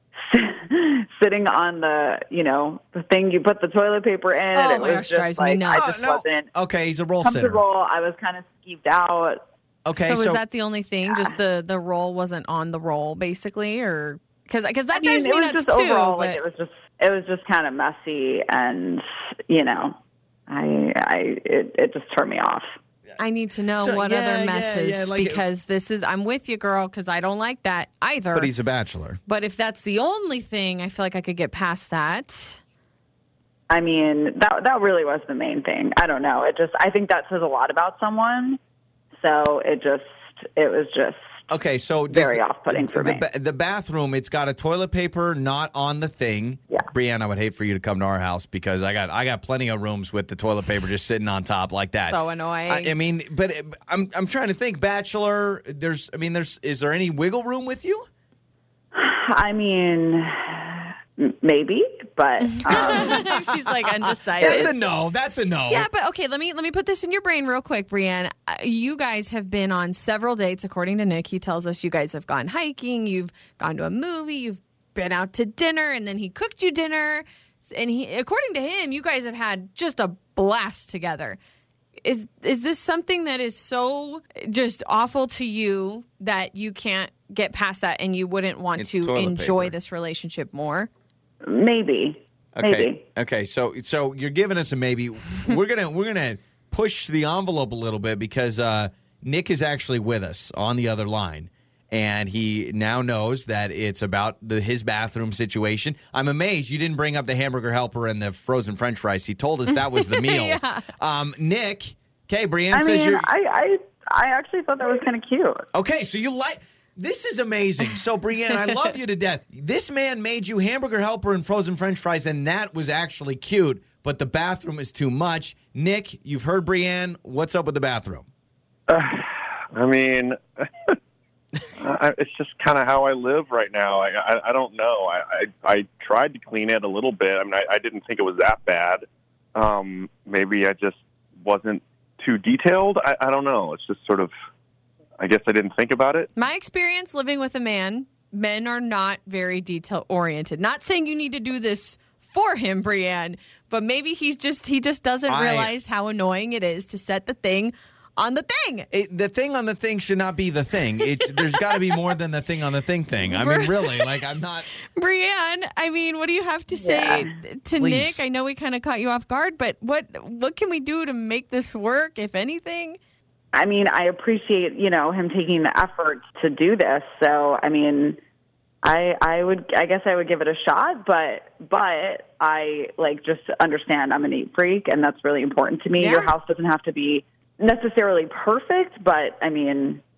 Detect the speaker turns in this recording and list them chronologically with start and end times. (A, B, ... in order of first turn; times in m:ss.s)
0:00.2-0:06.5 A
0:04.5-0:05.9 B
0:05.7-0:07.6 C
0:07.2-0:09.4 A
0:09.8-0:10.4 C
0:09.9-0:16.4 B
0:14.9-0:20.0 A
0:20.5-0:22.8 A
0:23.2-0:28.5 B
0:23.8-0:25.4 C
0:28.3-0:29.2 C
0:29.3-0:32.6 B
0:33.7-0:38.6 A
0:39.2-0:41.2 A
0:41.5-0:52.2 C
0:42.1-0:43.2 A
0:52.0-0:52.9 B
0:52.7-0:58.1 C
0:58.9-1:03.3 A
1:02.4-1:04.7 B
1:02.7-1:05.9 C
1:05.7-1:21.4 B
1:22.0-1:30.9 B
1:28.8-1:29.7 C
1:31.5-1:33.0 A
1:32.6-1:53.2 C
1:49.7-1:50.8 B
1:52.7-1:55.7 A
1:55.7-2:08.2 C
2:08.9-2:11.0 D
2:11.8-2:19.0 D
2:19.6-2:24.3 D
2:25.2-2:26.3 D
2:26.4-2:38.9 B
2:35.3-2:35.7 C
2:38.9-2:44.7 C
2:41.0-2:42.1 B
2:43.2-2:44.2 B
2:45.0-2:53.0 B
2:46.7-2:47.3 A
2:47.8-2:48.2 C
2:53.5-2:58.2 A
2:58.8-3:10.0 A
3:06.0-3:06.3 B